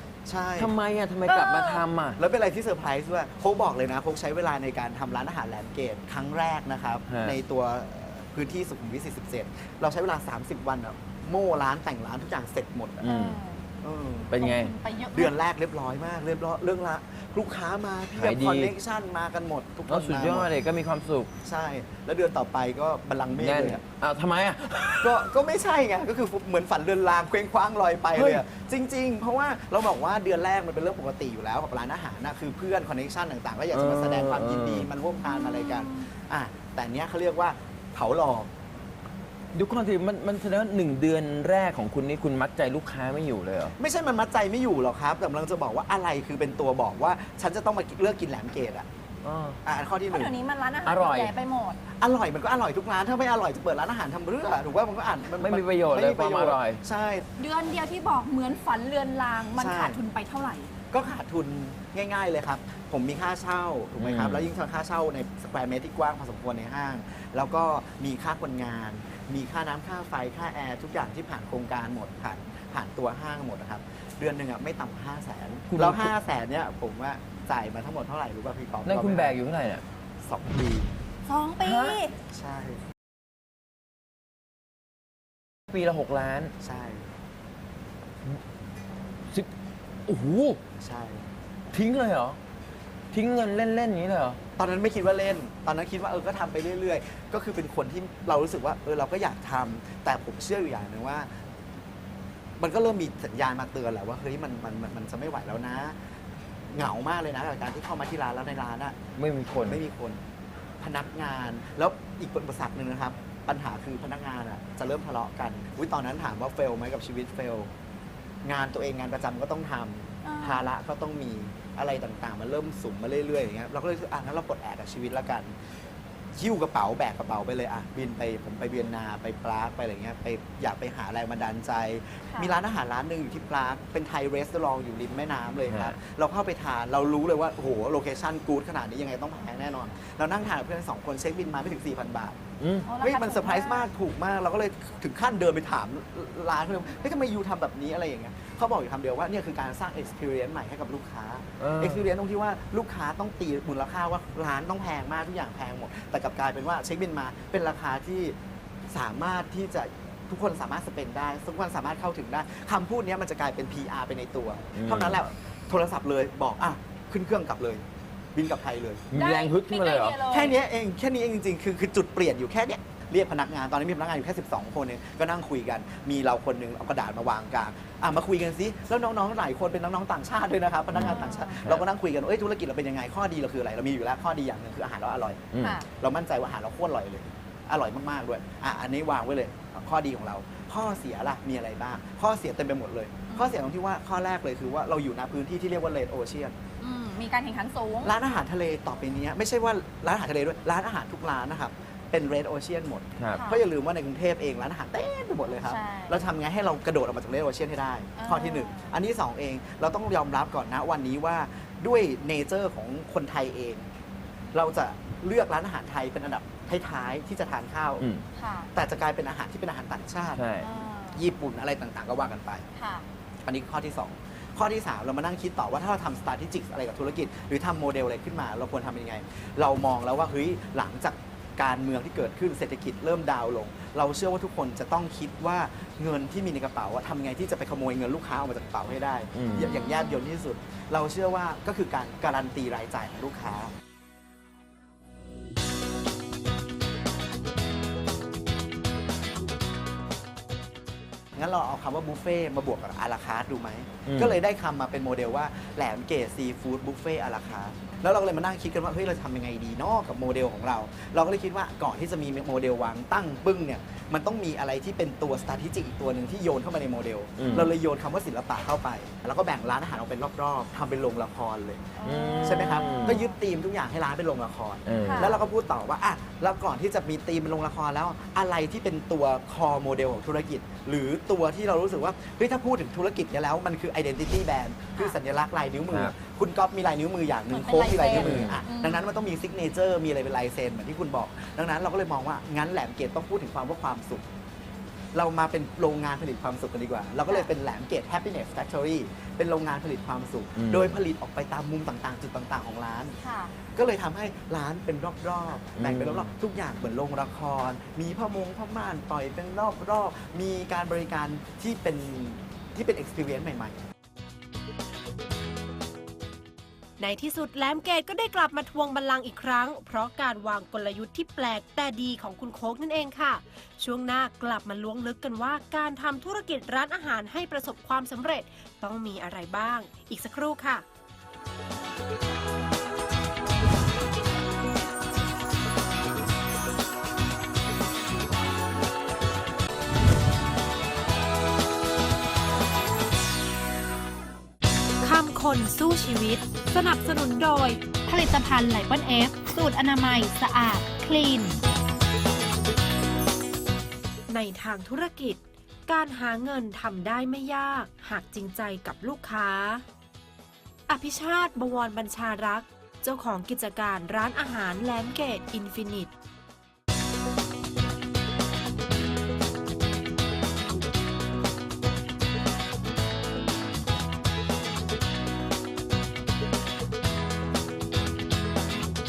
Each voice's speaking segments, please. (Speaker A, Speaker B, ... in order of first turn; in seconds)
Speaker A: 0.2-0.7, 2.1-13.0, 13.8-14.4, 15.1-20.5, 21.4-23.8, 25.0-38.5, 43.8-48.9, 49.6-50.3, 52.0-57.3, 59.6-60.0, 60.9-79.4, 80.2-80.9, 82.3-82.8, 86.6-87.1, 90.8-91.3, 94.6-101.3, 102.6-106.0, 106.7-109.0, 109.6-110.2, 110.8-117.7, 118.4-125.5, 126.3-142.4, 143.0-158.3, 158.9-169.1, 170.3-196.6, 198.0-213.9, 214.5-218.1, 218.7-220.4, 221.1-222.6, 223.4-243.7, 251.4-294.2, 295.1-303.2, 303.7-313.9
Speaker B: 0.6-2.2, 7.1-7.4, 13.0-13.4, 14.3-14.8, 18.1-18.7, 19.9-21.3, 23.3-25.2, 28.1-28.4, 33.7-34.9, 39.5-43.8, 49.2-49.6, 50.8-51.3, 55.4-56.8, 64.0-64.5, 75.7-76.1, 78.8-79.8, 81.6-82.0, 85.7-86.5, 90.1-90.6, 91.7-92.4, 93.1-94.4, 109.2-109.8, 135.7-136.0, 142.6-142.9, 151.6-152.1, 164.8-165.2, 169.1-170.2, 180.9-181.8, 185.5-185.8, 218.0-218.2, 220.3-220.7, 239.3-239.8, 254.1-254.4, 267.4-267.8, 272.0-273.2, 274.9-275.3, 285.9-286.1, 288.1-288.6, 300.6-301.0, 305.8-306.3
Speaker C: 1.3-1.8, 13.0-13.7, 14.4-15.3, 35.2-36.0, 50.1-51.8, 57.4-60.7, 81.3-82.1, 120.2-120.7, 142.8-143.9, 169.1-170.5, 181.0-181.6, 185.6-185.8, 193.3-193.6, 196.8-198.1, 203.3-203.6, 205.7-206.2, 208.2-208.9, 218.4-218.7, 220.6-221.3, 222.8-223.1, 239.5-240.2, 272.0-273.3, 275.0-275.4, 287.5-289.0, 303.2-303.5
Speaker D: 317.0-330.9, 345.0-351.6, 354.3-359.9, 360.9-366.1